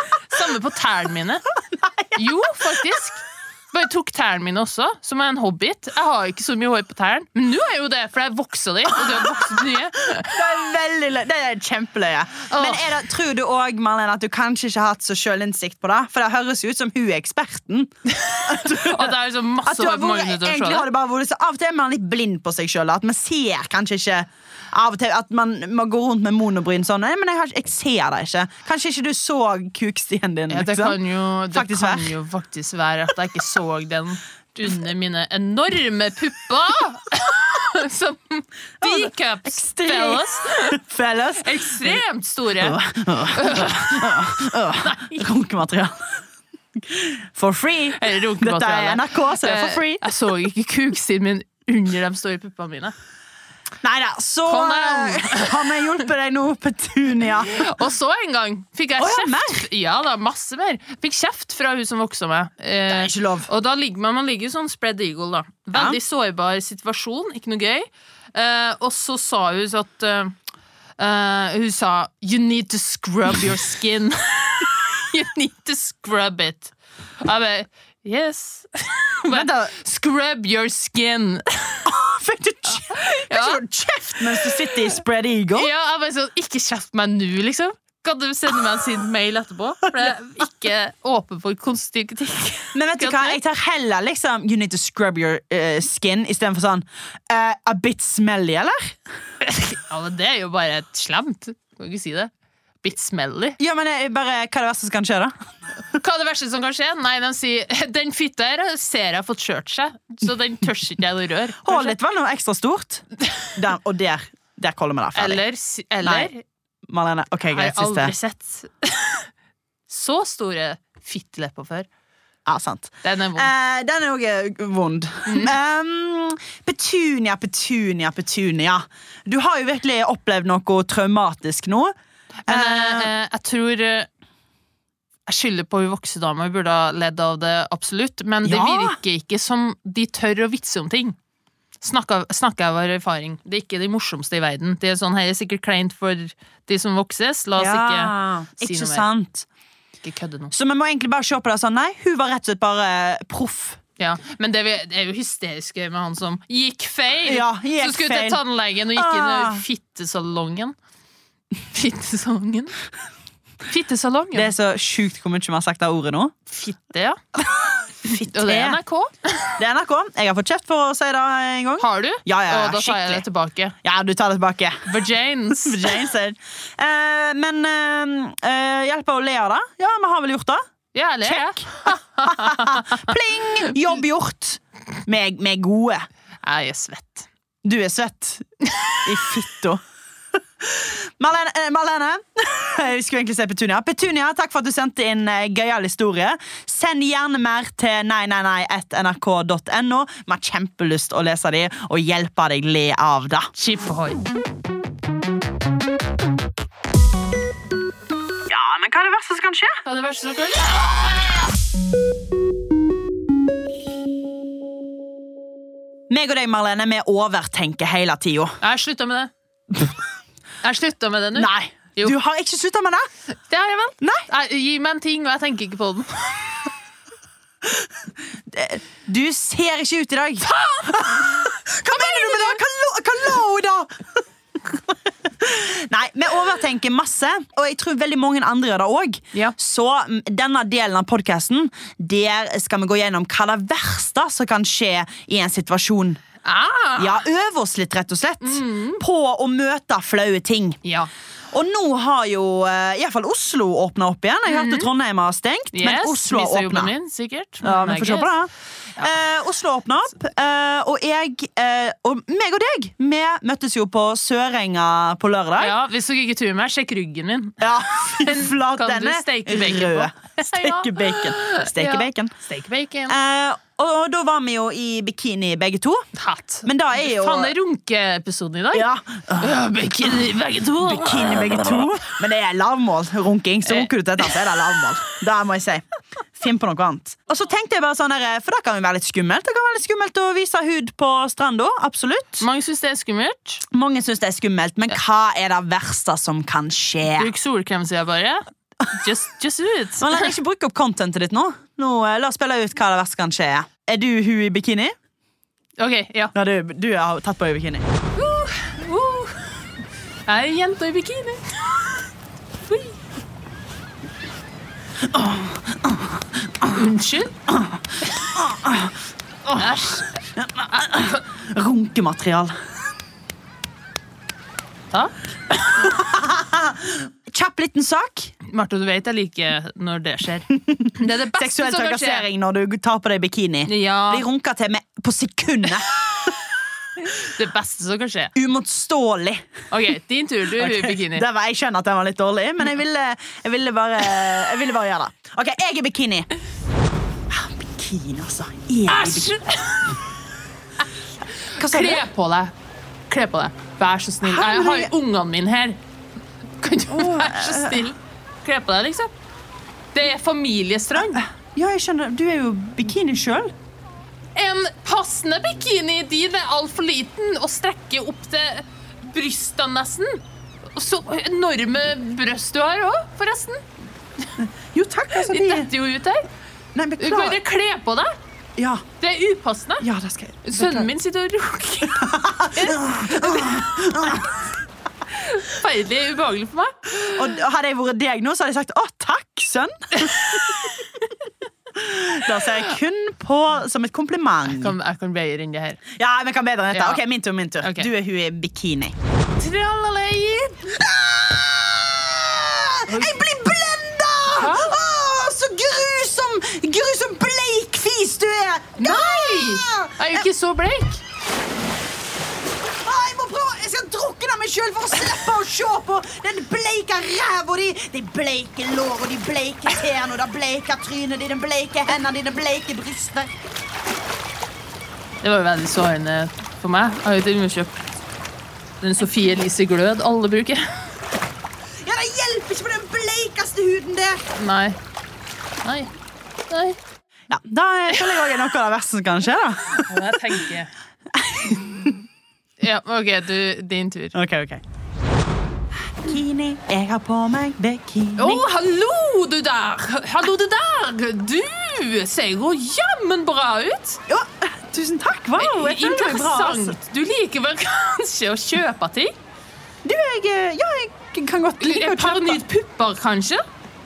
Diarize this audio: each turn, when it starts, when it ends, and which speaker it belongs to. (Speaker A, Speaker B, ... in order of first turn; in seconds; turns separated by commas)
Speaker A: 0.3-1.4, Speaker B: 1.7-2.2, Speaker A: 2.1-10.3, Speaker B: 10.2-17.9, Speaker A: 12.5-12.9, Speaker A: 18.1-20.9, Speaker B: 18.4-19.1, Speaker B: 19.6-31.0, Speaker A: 30.5-40.8, Speaker B: 31.5-32.1, Speaker B: 38.8-42.0, Speaker A: 41.4-44.3, Speaker B: 42.6-46.2, Speaker A: 44.8-45.2, Speaker B: 46.8-50.0, Speaker A: 47.9-52.9, Speaker B: 53.8-57.7, Speaker A: 54.5-55.8, Speaker A: 57.5-70.3, Speaker B: 59.0-59.6, Speaker B: 62.9-63.5, Speaker B: 65.7-66.0, Speaker A: 71.0-81.9, Speaker B: 79.3-79.7, Speaker B: 81.8-85.7, Speaker A: 82.7-83.6, Speaker A: 84.2-84.7, Speaker A: 85.5-93.4, Speaker B: 92.7-99.0, Speaker A: 99.4-102.3, Speaker A: 102.8-103.6, Speaker B: 103.6-105.3, Speaker A: 105.9-112.0, Speaker B: 111.6-115.4, Speaker A: 115.1-116.4, Speaker B: 116.0-116.3, Speaker B: 116.9-118.1, Speaker A: 117.5-119.3, Speaker A: 119.9-121.9, Speaker B: 122.5-131.9, Speaker A: 123.0-123.5, Speaker A: 125.3-125.5, Speaker A: 132.4-134.1, Speaker B: 132.5-133.1, Speaker A: 135.3-141.2, Speaker B: 138.4-139.0, Speaker A: 141.8-149.1, Speaker B: 147.6-149.4, Speaker A: 150.0-150.5, Speaker B: 150.5-153.8, Speaker A: 154.0-160.8, Speaker B: 157.2-158.4, Speaker B: 158.9-159.6, Speaker A: 161.7-162.8, Speaker A: 163.7-164.5, Speaker B: 164.3-166.3, Speaker A: 166.5-167.2, Speaker B: 167.4-168.8, Speaker A: 168.1-169.5, Speaker B: 169.6-173.2, Speaker A: 171.8-173.7, Speaker B: 173.8-174.9, Speaker A: 174.8-176.0, Speaker B: 175.6-180.6, Speaker A: 180.9-183.1, Speaker B: 181.2-186.1, Speaker A: 186.4-187.3, Speaker B: 187.6-188.5, Speaker A: 188.7-189.0, Speaker B: 189.0-189.8, Speaker B: 190.6-203.5, Speaker A: 203.6-204.2, Speaker B: 208.5-209.8, Speaker A: 209.8-211.3, Speaker B: 216.1-218.6, Speaker A: 218.6-219.3, Speaker A: 220.6-222.2, Speaker B: 221.3-223.1, Speaker A: 223.5-226.7, Speaker B: 228.5-246.2, Speaker A: 230.4-232.6, Speaker A: 246.4-247.2, Speaker B: 247.0-250.8, Speaker A: 248.4-249.0, Speaker A: 250.8-251.1, Speaker B: 251.5-256.9, Speaker A: 254.5-254.9, Speaker A: 255.7-258.3, Speaker B: 257.6-265.8, Speaker A: 265.6-273.1, Speaker B: 267.6-272.3, Speaker B: 273.1-276.0, Speaker A: 276.1-281.5, Speaker B: 276.6-277.5, Speaker B: 278.7-280.1, Speaker B: 280.7-292.4, Speaker A: 292.4-293.6, Speaker B: 293.7-297.3, Speaker A: 297.1-300.3, Speaker B: 300.0-304.9, Speaker A: 305.8-306.3, Speaker B: 306.3-307.8, Speaker A: 308.1-309.5, Speaker A: 310.3-311.9, Speaker A: 312.7-312.9, Speaker B: 315.0-316.8, Speaker A: 316.7-317.4, Speaker B: 317.5-322.6, Speaker A: 319.6-320.1, Speaker B: 325.7-328.3, Speaker A: 328.4-332.3, Speaker B: 330.6-336.4, Speaker A: 333.7-334.2, Speaker A: 337.0-338.3, Speaker B: 338.3-339.5, Speaker A: 339.7-341.2, Speaker B: 340.6-346.3, Speaker B: 347.3-349.3, Speaker A: 348.9-350.0, Speaker A: 351.5-352.5, Speaker B: 351.6-352.0, Speaker A: 353.1-355.8, Speaker B: 354.2-354.9, Speaker A: 356.6-359.1, Speaker B: 356.9-357.8, Speaker A: 359.9-361.2, Speaker B: 361.0-363.5, Speaker A: 364.4-373.6, Speaker B: 374.4-375.7, Speaker A: 375.2-376.2, Speaker B: 376.7-377.4, Speaker A: 377.0-378.1, Speaker B: 378.6-378.8, Speaker A: 379.0-379.9, Speaker B: 379.8-380.9, Speaker A: 380.4-384.1, Speaker B: 381.8-384.4, Speaker A: 385.1-387.2, Speaker B: 387.1-390.7, Speaker B: 391.7-394.7, Speaker A: 394.4-395.8, Speaker B: 395.9-398.9, Speaker A: 396.7-397.0, Speaker A: 397.6-397.9, Speaker A: 399.4-400.7, Speaker B: 400.7-410.2, Speaker A: 402.9-403.1, Speaker A: 404.3-404.8, Speaker A: 408.8-411.0, Speaker B: 412.8-423.3, Speaker A: 425.2-427.8, Speaker A: 428.8-430.8, Speaker B: 431.8-434.2, Speaker A: 434.3-434.8, Speaker A: 435.6-435.9, Speaker A: 436.5-436.8, Speaker B: 437.3-440.0, Speaker A: 439.8-440.7, Speaker B: 441.1-442.0, Speaker A: 442.6-444.1, Speaker B: 444.1-444.6, Speaker B: 445.9-448.5, Speaker A: 448.2-454.0, Speaker B: 454.1-456.8, Speaker A: 455.4-459.1, Speaker B: 459.8-462.4, Speaker A: 461.6-463.4